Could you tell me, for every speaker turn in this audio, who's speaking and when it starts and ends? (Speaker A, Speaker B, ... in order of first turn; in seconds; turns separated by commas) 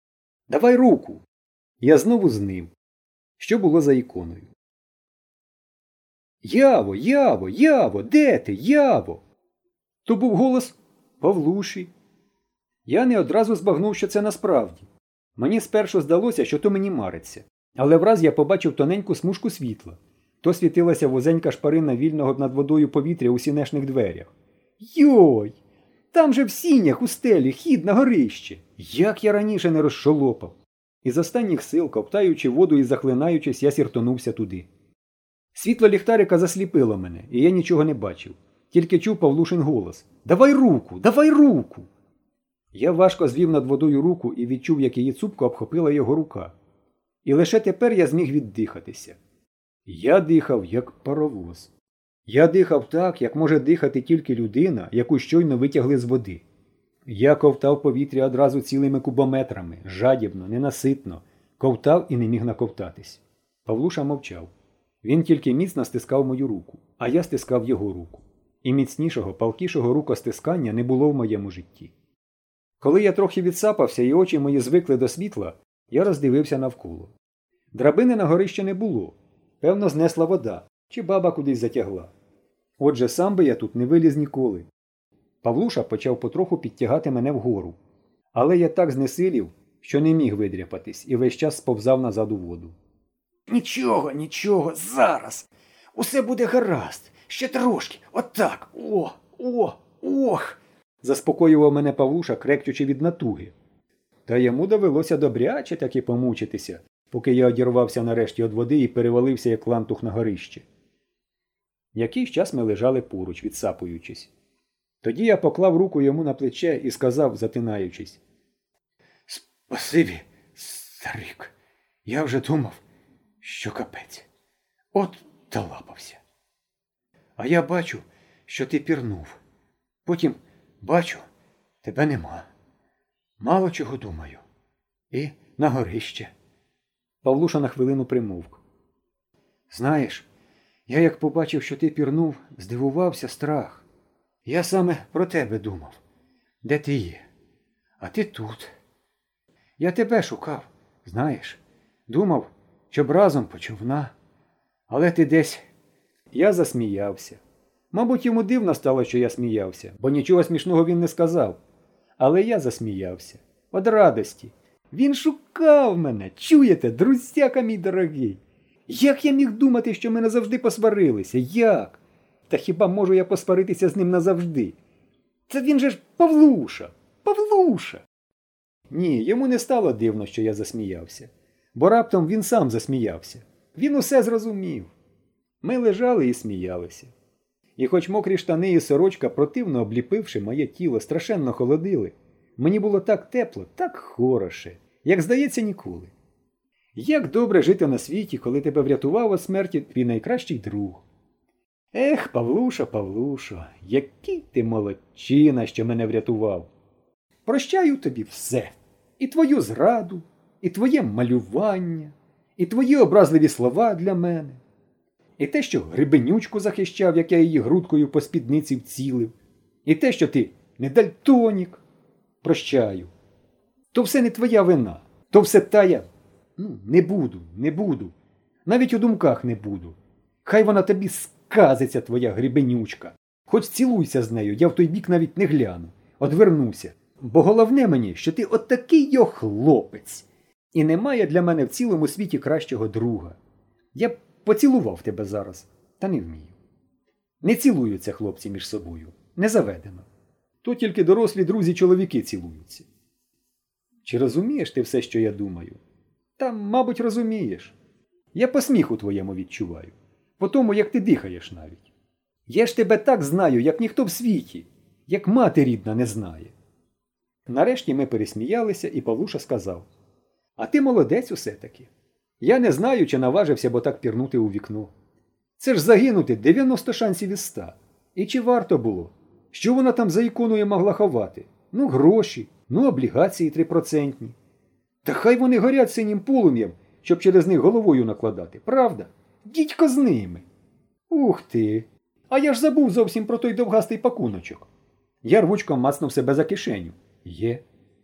Speaker A: 0.5-1.2, Speaker A: 1.8-2.7, Speaker A: 3.4-4.5, Speaker A: 6.4-9.2, Speaker A: 10.1-11.9, Speaker A: 12.8-25.6, Speaker A: 26.1-34.7, Speaker A: 35.5-41.9, Speaker A: 42.7-46.5, Speaker A: 47.2-49.2, Speaker A: 49.9-51.7, Speaker A: 52.3-56.4, Speaker A: 57.0-64.5, Speaker A: 65.0-71.9, Speaker A: 72.8-77.1, Speaker A: 77.7-82.1, Speaker A: 82.8-84.7, Speaker A: 85.4-87.8, Speaker A: 88.3-92.8, Speaker A: 93.5-103.5, Speaker A: 104.2-110.6, Speaker A: 111.9-114.3, Speaker A: 115.0-118.2, Speaker A: 119.3-121.5, Speaker A: 122.0-122.8, Speaker A: 123.4-124.3, Speaker A: 124.9-126.2, Speaker A: 127.4-129.4, Speaker A: 130.1-131.3, Speaker A: 131.8-132.5, Speaker A: 133.4-134.4, Speaker A: 135.1-136.3, Speaker A: 137.2-138.6, Speaker A: 139.7-140.3, Speaker A: 140.9-143.8, Speaker A: 144.4-146.0, Speaker A: 146.6-147.2, Speaker A: 148.0-148.7, Speaker A: 149.8-154.1, Speaker A: 154.9-155.6, Speaker A: 156.3-157.4, Speaker A: 157.9-161.6, Speaker A: 162.2-174.8, Speaker A: 175.5-178.0, Speaker A: 178.9-184.9, Speaker A: 185.6-187.1, Speaker A: 187.8-196.1, Speaker A: 196.9-201.0, Speaker A: 201.9-206.7, Speaker A: 207.4-214.6, Speaker A: 215.4-221.8, Speaker A: 222.4-223.1, Speaker A: 223.9-228.1, Speaker A: 228.7-243.4, Speaker A: 243.9-246.6, Speaker A: 247.4-250.1, Speaker A: 250.6-252.9, Speaker A: 254.0-255.8, Speaker A: 256.4-257.7, Speaker A: 258.3-261.9, Speaker A: 262.5-266.5, Speaker A: 267.5-269.9, Speaker A: 270.6-274.9, Speaker A: 275.6-284.4, Speaker A: 285.0-290.4, Speaker A: 291.1-294.7, Speaker A: 295.2-297.6